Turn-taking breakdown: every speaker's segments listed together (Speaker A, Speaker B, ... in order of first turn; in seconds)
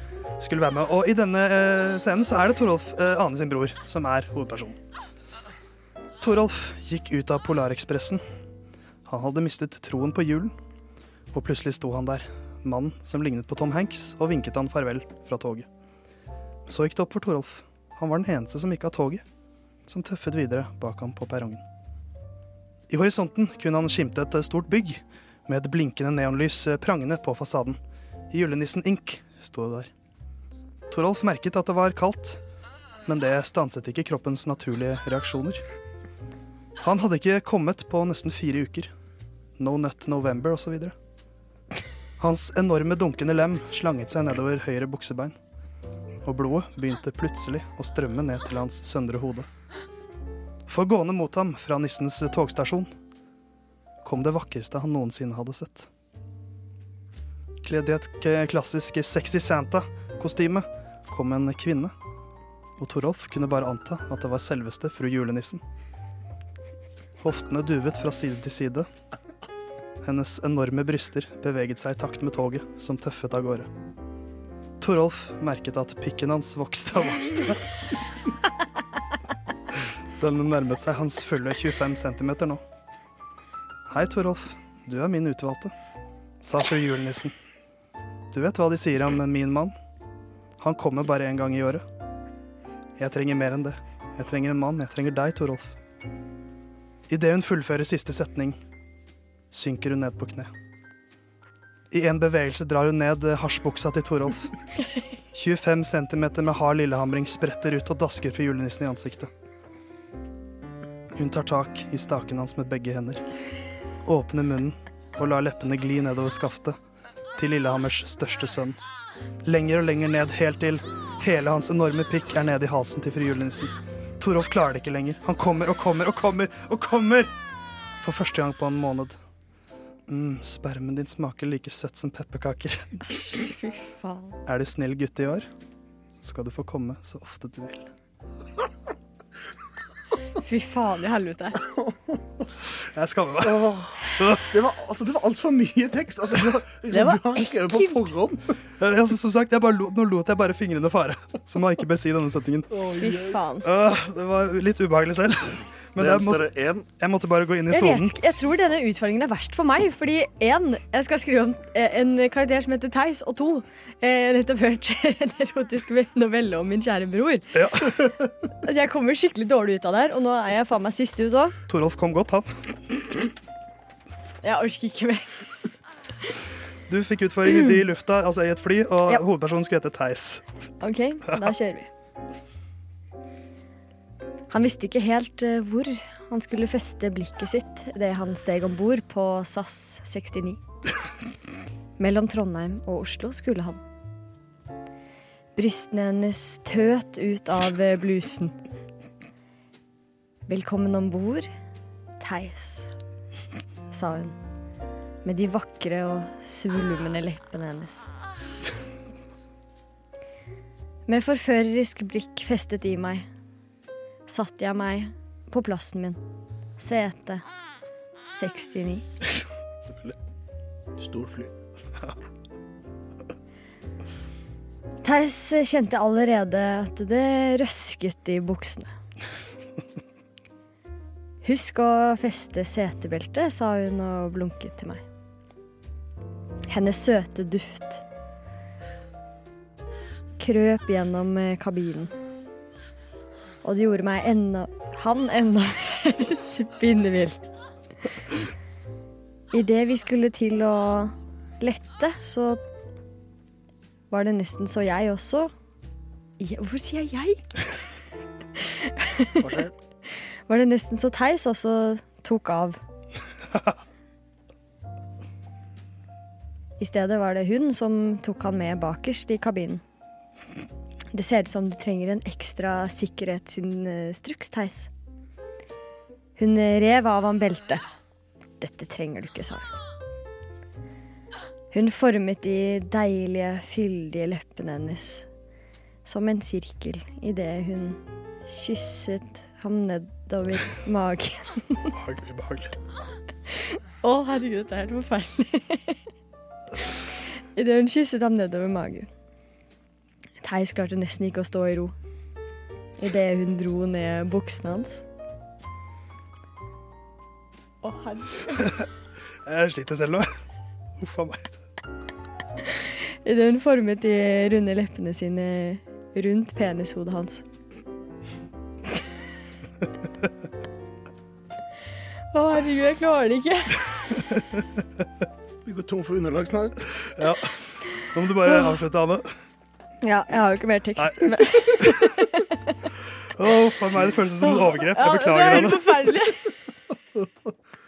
Speaker A: 0.4-4.8, 6.2-8.2, 9.1-10.5, 11.3-15.7, 16.7-19.2, 19.9-21.6, 22.9-27.8, 28.3-29.9, 30.9-32.4, 33.0-35.6, 36.8-38.9, 39.6-40.9, 42.2-45.3, 46.2-49.5, 50.7-52.9, 54.0-55.9, 57.6-61.9, 62.8-65.6, 67.2-68.9, 70.0-73.7, 74.8-77.7, 80.2-82.6, 83.9-85.7, 86.4-87.3, 88.3-89.7, 90.6-91.8, 93.0-95.7, 97.1-98.6, 99.5-100.5, 101.9-104.5, 105.3-109.3, 111.1-113.2, 114.0-116.8, 117.3-118.8, 119.4-127.3, 128.0-129.2, 130.1-133.1, 134.4-135.5, 136.2-137.9, 142.9-143.7, 148.8-152.8, 153.6-156.5, 157.0-158.2, 167.5-168.1, 171.7-172.6, 176.9-180.4, 291.9-292.7, 309.4-310.3, 311.0-311.6, 327.2-327.5, 328.1-329.3, 331.0-331.9, 333.4-336.2
Speaker B: 133.3-134.4, 140.4-141.6, 146.9-148.1, 152.9-153.7, 157.7-167.7, 168.6-171.6, 174.4-175.4, 180.8-181.9, 184.5-190.6, 192.0-193.8, 195.5-198.5, 200.5-201.5, 202.2-202.9, 203.9-204.4, 205.2-208.1, 211.1-213.3, 214.3-216.2, 216.8-217.4, 218.3-219.1, 225.0-228.9, 231.4-235.0, 236.7-238.0, 240.4-242.1, 243.6-247.4, 249.5-252.6, 254.1-255.5, 256.4-257.4, 258.6-259.7, 260.5-262.8, 266.8-269.8, 271.1-274.9, 276.4-277.8, 278.6-279.6, 281.7-285.3, 286.0-291.9, 294.0-296.0, 297.5-299.1, 300.4-301.9, 303.0-305.0, 307.8-308.8, 313.2-317.4, 322.3-324.0, 330.0-332.5, 334.4-336.5
Speaker C: 141.7-142.1, 143.4-148.4, 156.0-156.9, 221.0-221.5, 325.6-326.9